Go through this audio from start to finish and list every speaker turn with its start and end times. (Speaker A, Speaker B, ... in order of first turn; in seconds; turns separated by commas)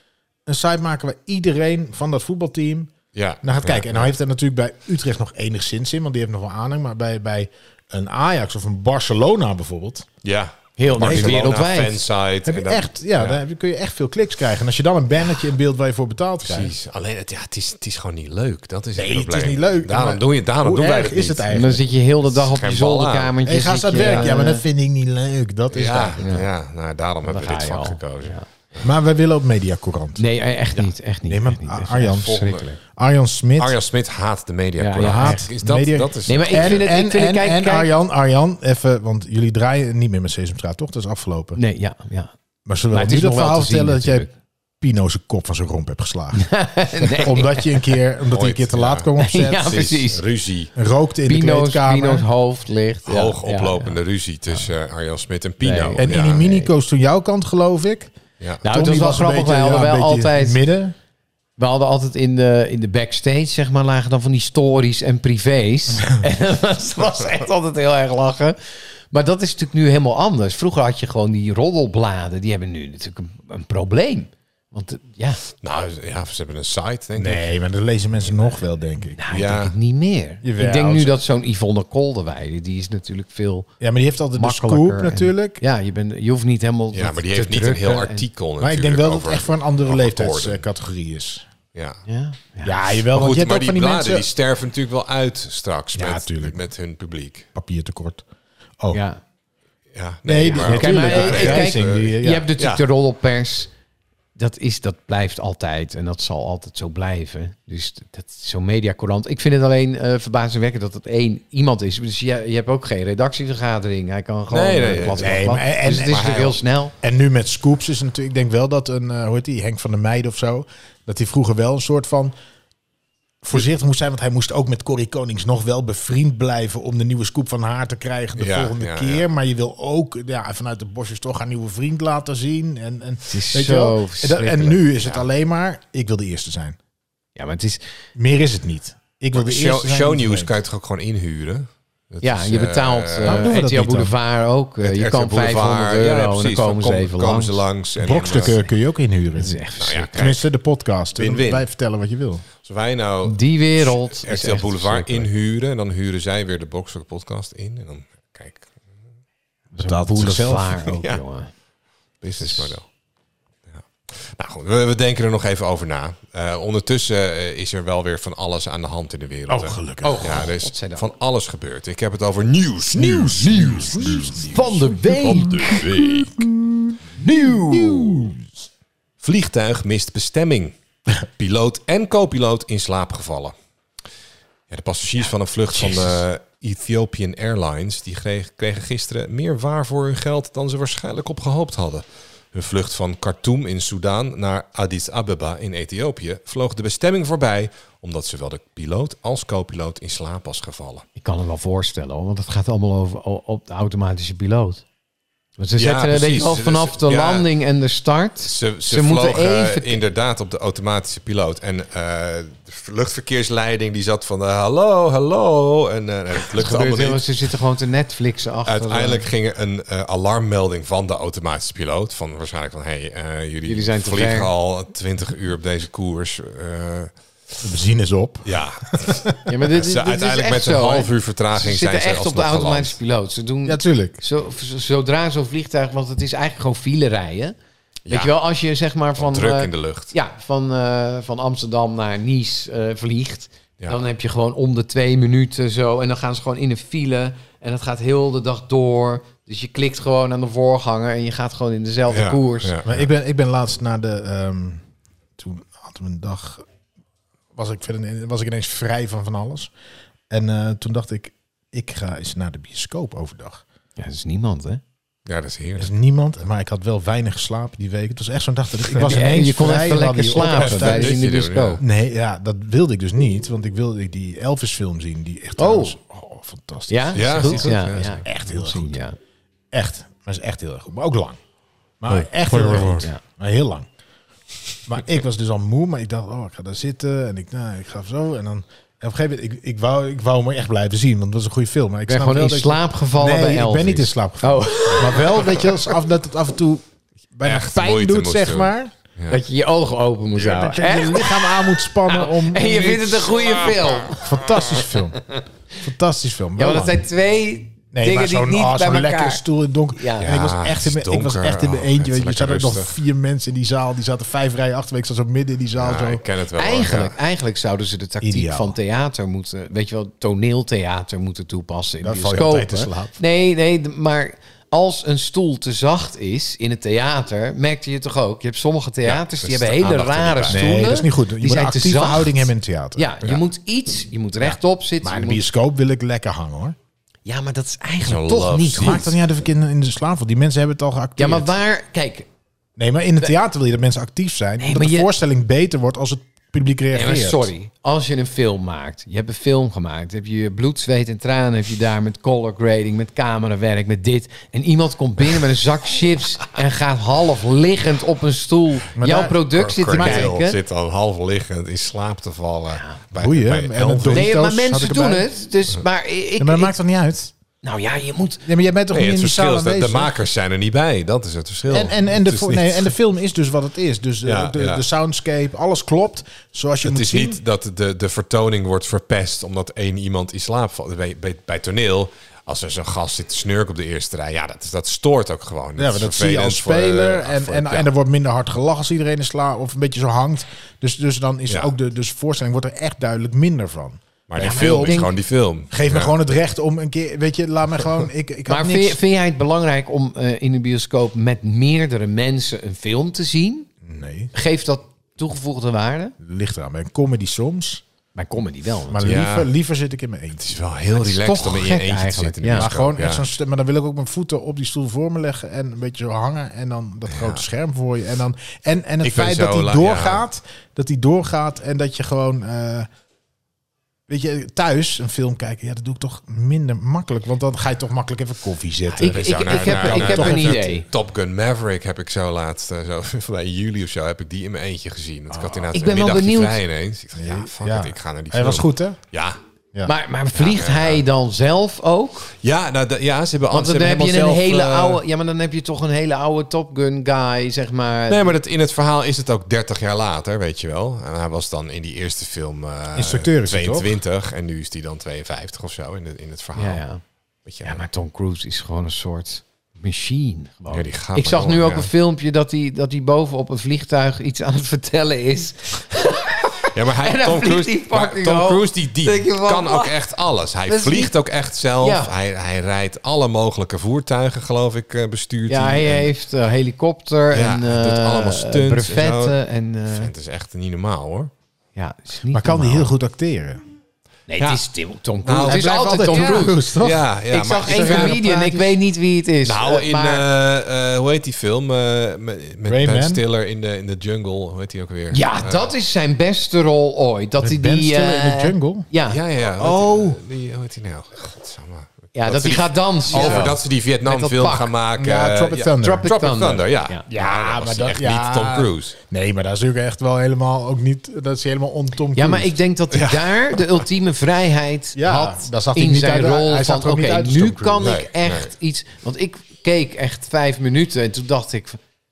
Speaker A: 0.5-10.1, Speaker B: 3.1-4.1, Speaker B: 10.2-13.4, Speaker C: 10.8-12.0, Speaker A: 11.0-11.5, Speaker A: 12.4-16.7, Speaker B: 16.4-21.5, Speaker A: 18.9-21.8, Speaker C: 21.5-24.6, Speaker B: 22.2-23.4, Speaker A: 23.4-26.2, Speaker B: 25.7-28.9, Speaker C: 26.2-26.5, Speaker C: 27.3-28.4, Speaker A: 28.8-30.2, Speaker C: 30.2-32.8, Speaker A: 31.3-33.8, Speaker B: 32.0-32.6, Speaker B: 33.6-36.8, Speaker C: 34.8-35.5, Speaker A: 35.0-41.6, Speaker C: 36.2-37.9, Speaker C: 41.5-42.3, Speaker A: 42.6-44.3, Speaker C: 42.9-44.3, Speaker A: 44.8-50.0, Speaker C: 46.3-47.9, Speaker B: 48.3-50.7, Speaker C: 49.2-50.2, Speaker A: 50.7-52.2, Speaker C: 51.2-54.0, Speaker B: 53.0-56.5, Speaker C: 55.6-56.7, Speaker A: 56.0-58.1, Speaker C: 58.6-60.6, Speaker A: 58.6-60.9, Speaker C: 61.6-75.4, Speaker B: 75.6-77.4, Speaker A: 77.1-79.2, Speaker C: 79.1-83.7, Speaker B: 79.3-79.7, Speaker A: 80.4-81.1, Speaker A: 83.8-85.6, Speaker C: 84.4-88.2, Speaker B: 86.9-90.6, Speaker A: 88.6-91.5, Speaker B: 91.7-92.0, Speaker C: 92.1-92.8, Speaker A: 92.6-94.2, Speaker B: 93.1-97.5, Speaker A: 95.9-96.6, Speaker A: 97.5-98.2, Speaker C: 98.9-99.2, Speaker B: 99.9-102.8, Speaker A: 100.2-102.5, Speaker C: 100.5-103.7, Speaker C: 104.3-116.9, Speaker B: 114.5-116.6, Speaker A: 115.2-116.3, Speaker A: 117.0-122.3, Speaker A: 123.4-136.8, Speaker B: 128.3-129.2, Speaker C: 133.3-134.9, Speaker C: 137.3-137.8, Speaker A: 138.1-140.5, Speaker B: 139.3-143.5, Speaker C: 142.2-147.6, Speaker A: 143.2-144.1, Speaker B: 144.8-148.6, Speaker A: 148.0-152.4, Speaker C: 149.3-150.3, Speaker B: 149.8-150.4, Speaker B: 151.1-151.7, Speaker B: 152.6-158.7, Speaker C: 153.2-155.3, Speaker C: 159.7-161.5, Speaker A: 159.8-160.8, Speaker B: 160.9-161.2, Speaker B: 162.2-162.9, Speaker C: 162.4-162.7, Speaker B: 163.7-176.5, Speaker A: 169.5-170.5, Speaker C: 170.0-171.1, Speaker A: 172.9-177.0, Speaker C: 173.1-175.8, Speaker C: 177.1-178.3, Speaker A: 177.7-178.5, Speaker B: 179.2-183.5, Speaker B: 184.7-201.0, Speaker C: 201.2-204.8, Speaker C: 205.6-210.0, Speaker B: 205.8-207.5, Speaker B: 208.4-217.2, Speaker C: 216.6-219.2, Speaker B: 218.7-227.6, Speaker C: 223.7-224.5, Speaker A: 227.6-229.5, Speaker B: 228.4-232.9, Speaker C: 229.5-237.5, Speaker A: 233.7-234.2, Speaker B: 238.1-238.3, Speaker C: 238.1-252.7, Speaker B: 239.2-240.1, Speaker B: 252.1-253.0, Speaker A: 252.8-254.8, Speaker A: 255.4-256.6, Speaker A: 257.5-259.7, Speaker A: 260.3-263.6, Speaker C: 264.0-264.8, Speaker B: 265.2-265.9, Speaker A: 265.8-271.1, Speaker C: 269.0-271.8, Speaker B: 270.5-271.8, Speaker A: 271.8-279.0, Speaker C: 275.6-275.9, Speaker C: 276.9-279.1, Speaker B: 277.1-278.2, Speaker A: 279.7-281.4, Speaker A: 282.0-283.9, Speaker B: 282.1-283.1, Speaker A: 284.9-296.8, Speaker C: 292.1-295.9, Speaker A: 297.3-298.9, Speaker B: 297.4-299.4, Speaker C: 299.3-305.4, Speaker A: 300.4-303.3, Speaker B: 300.4-300.7, Speaker A: 304.1-305.2, Speaker A: 305.8-307.0, Speaker C: 306.6-309.4, Speaker A: 307.9-316.2, Speaker C: 309.9-310.4, Speaker B: 310.2-312.9, Speaker B: 315.8-317.2, Speaker C: 316.6-335.4, Speaker A: 318.2-318.8, Speaker A: 322.0-323.2, Speaker B: 329.0-330.8, Speaker A: 330.5-333.1, Speaker A: 334.4-336.8, Speaker C: 337.2-339.1, Speaker B: 338.0-339.1, Speaker A: 338.8-341.5, Speaker C: 341.2-342.3, Speaker A: 342.8-347.5, Speaker C: 344.6-345.1, Speaker C: 346.9-360.6, Speaker A: 358.9-360.3, Speaker B: 359.5-364.3, Speaker C: 362.7-363.0, Speaker A: 363.1-365.3, Speaker C: 364.1-366.7, Speaker A: 366.4-367.3, Speaker C: 367.6-368.4, Speaker A: 368.4-370.1, Speaker B: 368.9-372.9, Speaker A: 371.7-377.4, Speaker B: 374.2-374.8, Speaker B: 376.8-387.9, Speaker A: 385.8-395.1, Speaker B: 394.3-396.1, Speaker C: 394.4-395.1, Speaker A: 395.7-399.0, Speaker C: 398.5-403.7, Speaker A: 403.8-404.3, Speaker C: 404.3-406.1, Speaker A: 406.2-407.8, Speaker C: 408.1-409.1, Speaker A: 408.9-410.5, Speaker B: 409.0-409.5, Speaker B: 410.4-413.2, Speaker C: 410.9-412.7, Speaker A: 412.5-422.9, Speaker B: 417.1-417.4, Speaker B: 419.0-420.2, Speaker A: 424.1-430.7, Speaker B: 428.9-439.4, Speaker C: 429.0-430.8, Speaker A: 435.3-435.7, Speaker C: 435.7-436.6, Speaker A: 437.2-439.0, Speaker C: 439.8-442.3, Speaker B: 440.3-441.0, Speaker B: 442.4-445.0, Speaker C: 443.5-448.4, Speaker B: 448.1-456.8, Speaker A: 452.9-453.9, Speaker C: 456.6-457.0, Speaker B: 457.4-457.8, Speaker C: 457.6-470.0, Speaker B: 460.7-461.9, Speaker B: 466.7-476.1, Speaker C: 470.7-471.1, Speaker C: 471.8-472.1, Speaker C: 475.5-480.1, Speaker B: 477.3-479.4, Speaker B: 479.9-481.3, Speaker C: 481.8-482.9, Speaker A: 482.3-483.6, Speaker C: 484.3-486.6, Speaker B: 485.2-488.7, Speaker A: 485.5-487.1, Speaker C: 487.3-490.2, Speaker A: 487.6-488.6, Speaker B: 489.4-495.7, Speaker A: 492.7-493.2, Speaker C: 495.1-499.2, Speaker A: 497.4-498.9, Speaker B: 499.1-508.9, Speaker A: 499.6-500.2, Speaker C: 502.1-504.7, Speaker A: 503.1-503.6, Speaker A: 505.0-506.1, Speaker C: 505.8-507.0, Speaker A: 507.1-512.5, Speaker C: 512.1-521.8, Speaker B: 512.9-513.8, Speaker A: 514.9-517.9, Speaker B: 517.8-518.5